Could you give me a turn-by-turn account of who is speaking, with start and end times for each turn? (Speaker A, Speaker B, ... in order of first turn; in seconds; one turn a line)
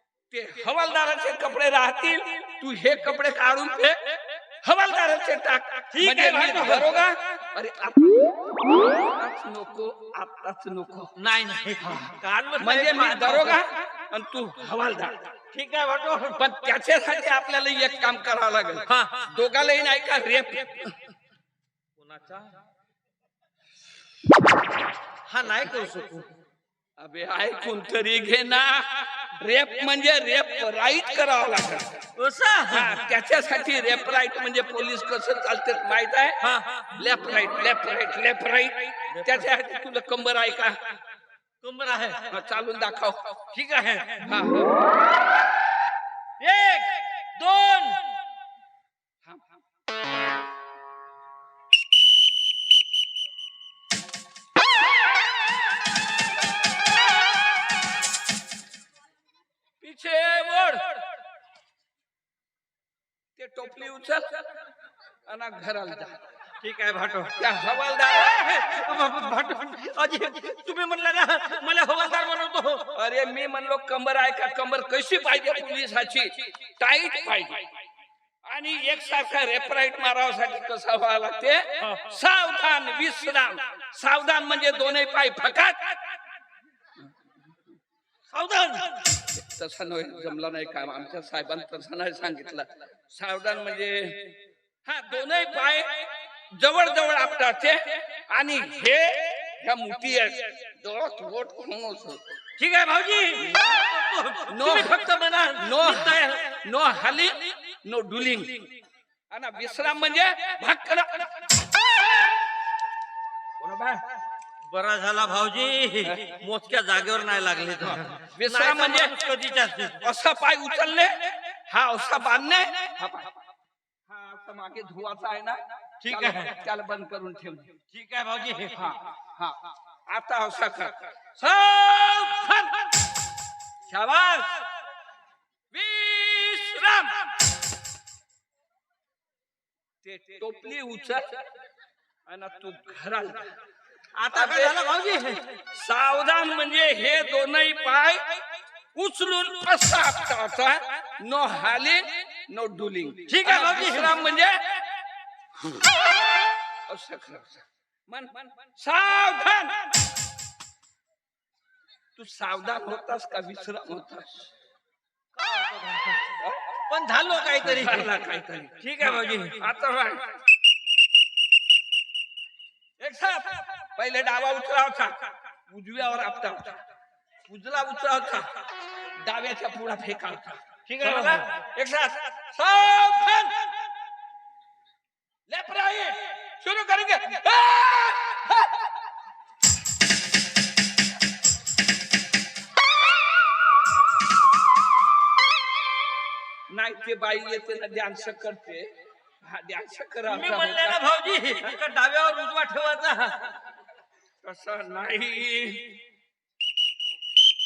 Speaker A: 0.3-4.0
Speaker A: 4.6-11.1
Speaker B: 5.9-7.1
Speaker B: 11.2-13.6
Speaker A: 12.6-15.3
Speaker B: 15.5-16.4
Speaker A: 16.4-21.0
Speaker B: 18.9-19.3
Speaker B: 22.0-22.5
Speaker B: 25.3-26.3
Speaker A: 27.0-32.0
Speaker B: 32.2-33.0
Speaker A: 32.7-40.9
Speaker B: 36.4-37.0
Speaker B: 39.1-39.5
Speaker B: 41.6-42.3
Speaker A: 42.3-43.4
Speaker B: 43.5-44.2
Speaker A: 44.2-44.8
Speaker B: 46.4-48.0
Speaker A: 49.2-49.6
Speaker A: 59.8-61.0
Speaker A: 63.4-64.5
Speaker A: 65.3-66.2
Speaker B: 66.6-67.4
Speaker A: 67.4-69.0
Speaker B: 68.3-72.8
Speaker A: 73.0-77.8
Speaker A: 78.5-86.0
Speaker B: 88.3-89.0
Speaker A: 89.3-102.4
Speaker B: 102.6-106.6
Speaker A: 103.4-103.8
Speaker A: 104.5-108.7
Speaker A: 109.3-111.4
Speaker A: 113.6-114.0
Speaker B: 114.7-120.0
Speaker A: 118.3-119.2
Speaker A: 120.0-123.3
Speaker A: 124.1-127.7
Speaker B: 126.0-126.5
Speaker B: 127.9-129.0
Speaker A: 128.9-132.9
Speaker A: 133.9-134.7
Speaker A: 135.7-137.3
Speaker A: 140.0-141.4
Speaker A: 142.3-143.5
Speaker B: 144.2-145.5
Speaker A: 144.3-144.8
Speaker A: 145.7-148.4
Speaker A: 148.9-154.8
Speaker B: 153.3-154.2
Speaker A: 156.9-159.9
Speaker A: 162.2-164.5
Speaker B: 165.4-166.3
Speaker A: 166.4-166.8
Speaker B: 166.9-168.1
Speaker A: 167.6-170.4
Speaker B: 168.8-169.6
Speaker A: 173.0-176.8
Speaker A: 177.5-178.5
Speaker A: 179.2-183.9
Speaker B: 180.9-181.5
Speaker A: 185.5-189.1
Speaker A: 196.7-198.9
Speaker A: 199.4-201.0
Speaker B: 200.3-203.5
Speaker A: 204.4-206.0